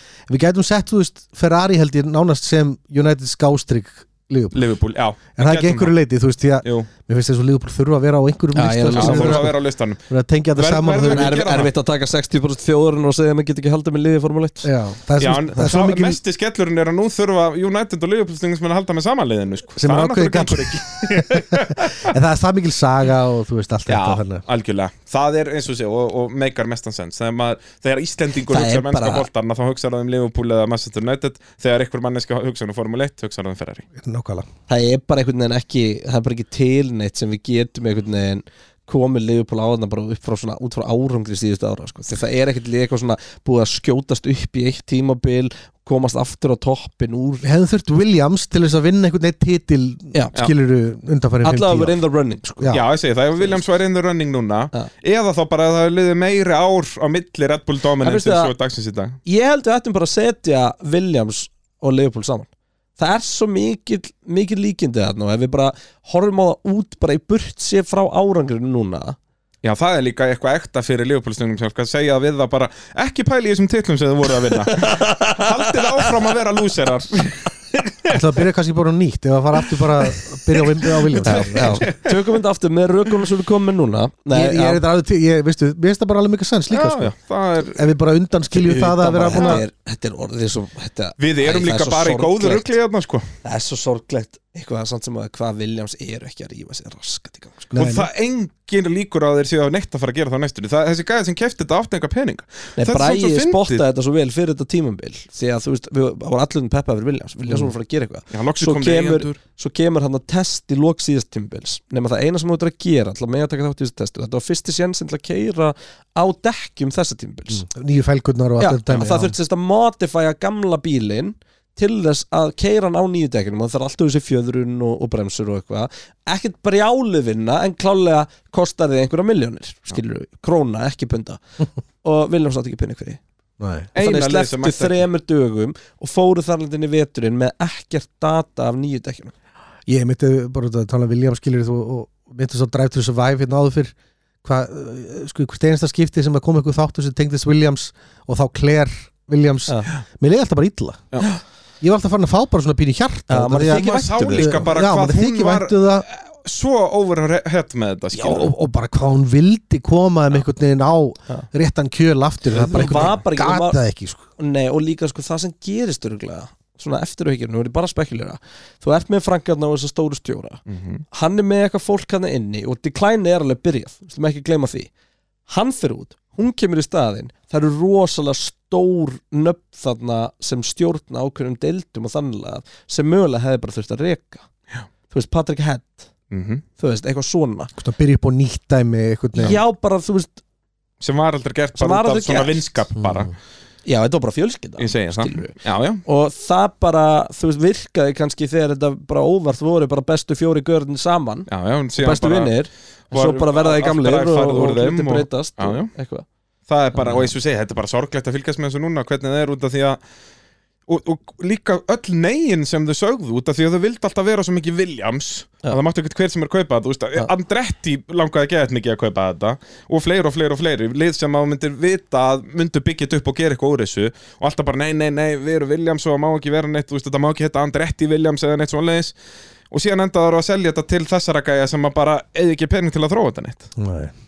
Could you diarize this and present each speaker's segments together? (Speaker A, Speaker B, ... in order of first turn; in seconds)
Speaker A: 0.3-4.7, 5.4-9.6, 10.1-11.4, 14.6-16.2, 19.8-24.4, 34.0-34.5, 47.4-52.0, 78.1-81.9, 84.3-87.1, 87.7-89.6, 97.7-98.1, 117.5-119.3, 133.6-133.9, 139.9-151.0, 151.8-156.1, 158.1-164.2, 187.8-189.6, 193.0-193.3, 233.8-234.1
Speaker B: 4.5-5.9, 6.6-6.9, 8.9-10.0, 10.6-11.7, 15.2-22.1, 23.9-33.9, 52.7-59.2, 69.6-78.2, 81.0-82.2, 86.7-87.9, 89.3-89.6, 91.2-93.3, 97.8-103.8, 108.3-109.4, 133.9-135.0, 153.6-158.5, 162.6-163.2, 170.7-171.0, 186.3-186.6, 191.0-193.3, 194.8-196.0, 201.5-202.6, 203.1-205.9, 206.7-210.0, 210.9-229.1, 229.7-233.7
Speaker C: 8.5-9.5, 11.1-14.7, 28.5-29.3, 34.7-47.5, 51.4-52.8, 58.0-58.5, 59.2-69.2, 74.4-76.3, 81.2-84.8, 88.5-92.7, 93.4-97.7, 102.8-117.7, 118.6-131.4, 132.0-133.2, 134.0-139.3, 153.3-154.7, 162.6-163.8, 164.4-174.9, 175.5-184.5, 185.1-186.1, 186.8-187.7, 189.3-190.4, 191.8-192.7, 193.8-206.3, 206.9-207.3